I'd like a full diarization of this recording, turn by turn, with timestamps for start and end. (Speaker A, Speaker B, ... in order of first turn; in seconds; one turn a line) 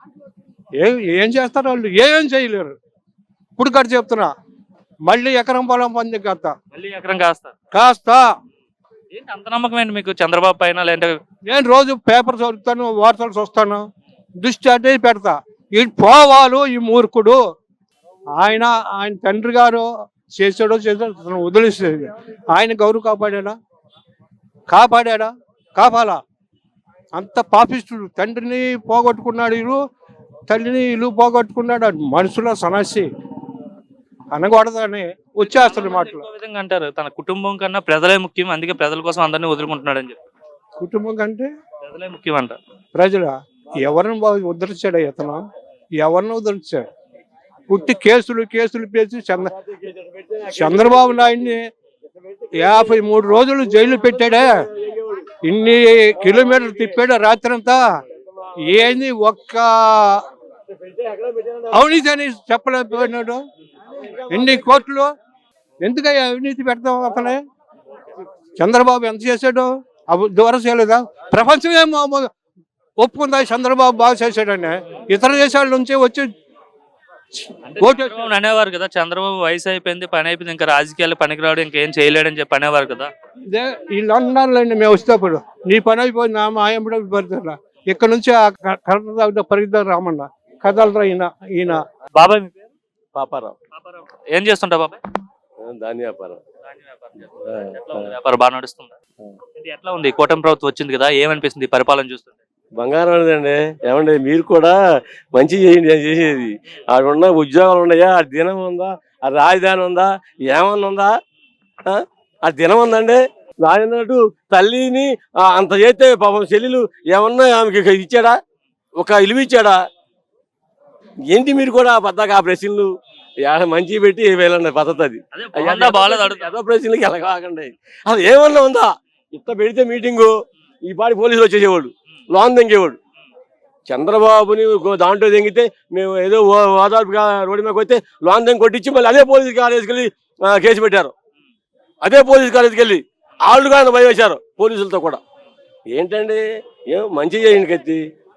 Speaker A: 0.8-2.7
Speaker A: 3.6-4.3
Speaker A: 5.1-6.5
Speaker B: 6.7-7.5
Speaker A: 7.7-8.2
Speaker B: 9.1-11.2
Speaker A: 11.5-13.8
Speaker A: 14.4-17.4
Speaker A: 18.4-23.6
Speaker A: 24.7-26.2
Speaker A: 27.1-29.8
Speaker A: 30.5-33.1
Speaker A: 34.3-36.2
Speaker B: 35.4-40.2
Speaker A: 40.8-41.5
Speaker B: 41.8-42.6
Speaker A: 42.9-45.4
Speaker A: 46.0-46.9
Speaker A: 47.7-49.5
Speaker C: 49.5-51.5
Speaker A: 50.5-51.6
Speaker C: 52.2-53.0
Speaker A: 52.5-54.6
Speaker C: 53.8-55.3
Speaker A: 55.4-57.8
Speaker C: 56.3-56.6
Speaker A: 58.6-60.2
Speaker C: 60.8-61.7
Speaker A: 61.7-63.4
Speaker C: 64.0-64.8
Speaker A: 64.3-65.1
Speaker A: 65.8-67.4
Speaker A: 68.6-72.3
Speaker A: 73.0-76.3
Speaker B: 77.7-83.1
Speaker A: 77.8-78.2
Speaker A: 83.5-91.8
Speaker B: 92.2-92.7
Speaker C: 93.1-93.5
Speaker B: 93.7-95.0
Speaker C: 95.6-96.4
Speaker B: 96.7-98.9
Speaker C: 97.5-98.0
Speaker B: 99.6-102.3
Speaker C: 102.8-104.8
Speaker C: 105.3-111.1
Speaker C: 111.9-118.3
Speaker C: 119.0-119.8
Speaker C: 121.3-122.9
Speaker C: 123.4-130.3
Speaker B: 125.3-126.5
Speaker C: 130.8-133.0
Speaker C: 133.9-141.1
Speaker C: 142.0-145.2
Speaker C: 145.9-148.0